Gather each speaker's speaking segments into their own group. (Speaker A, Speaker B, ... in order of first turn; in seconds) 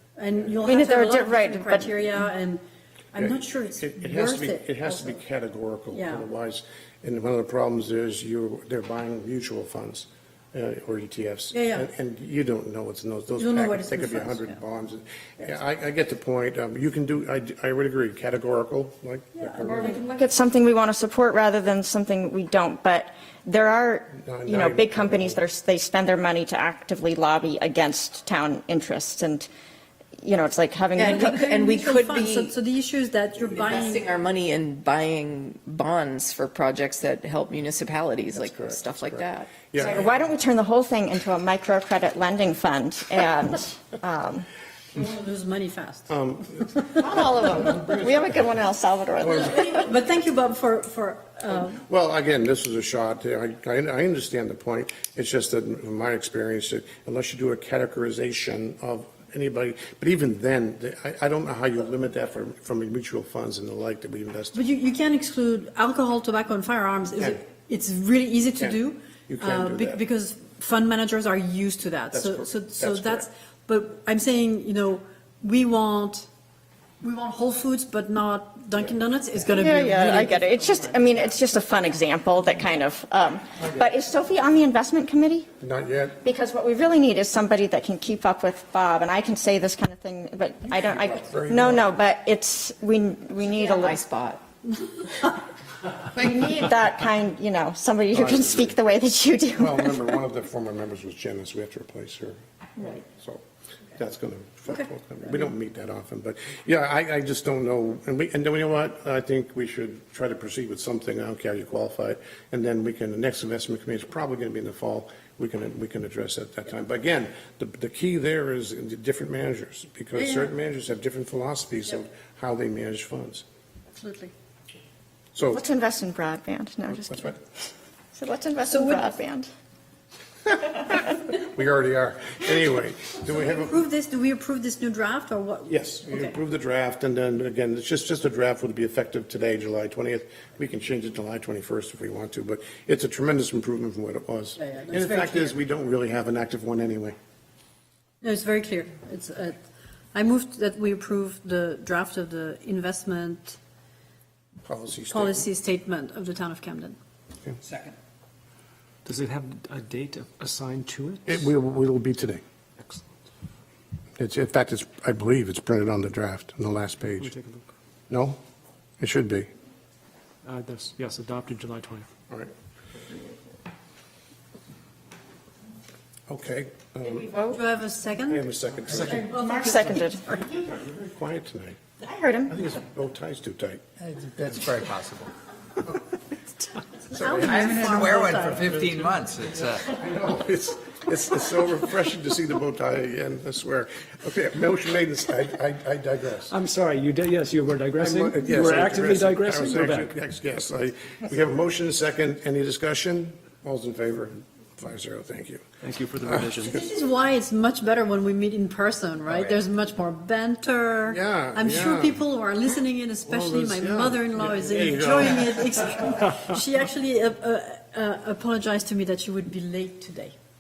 Speaker A: 0.2-5.2, 5.9-6.2, 11.5-11.9, 13.4-14.6, 31.1-34.1, 44.9-46.1, 49.3-51.8, 64.5-76.3, 77.0-81.0, 120.2-120.5, 123.9-124.3, 128.7-129.2, 133.3-136.3, 144.6-145.6, 148.2-149.6, 150.1-153.6, 155.1-157.0, 177.5-178.4, 179.3-179.9, 187.1-188.8, 206.6-220.3
Speaker B: 0.6-2.0, 19.7-29.5, 30.2-31.4, 39.8-44.5, 46.9-49.9, 79.5-85.5, 86.2-94.0, 96.1-100.2, 125.5-127.4, 128.1-129.5, 177.2-177.6, 179.1-180.4, 182.0-182.6
Speaker C: 3.2-20.0, 24.1-25.4, 38.4-40.1, 46.1-48.5, 49.2-49.6, 51.7-64.6, 69.3-70.0, 72.1-73.3, 83.6-83.8, 85.6-86.2, 90.8-91.9, 98.1-98.8, 99.6-103.4, 104.0-123.4, 125.3-125.6, 127.1-127.4, 131.3-133.8, 135.7-147.2, 154.7-155.4, 161.3-162.4, 164.2-167.3, 168.1-168.4, 169.0-169.5, 176.3-177.3, 178.3-179.4, 180.8-181.8, 182.5-183.8, 187.1-189.2, 189.8-196.5, 198.0-205.6, 206.2-206.6, 209.3-209.6, 211.1-212.2, 213.3-215.6
Speaker D: 31.0-32.5, 33.5-39.6, 93.6-94.4
Speaker E: 157.6-157.9, 184.0-185.3, 187.4-189.9
Speaker F: 159.1-161.5, 167.2-167.6, 170.5-172.1, 196.5-200.2, 205.8-206.8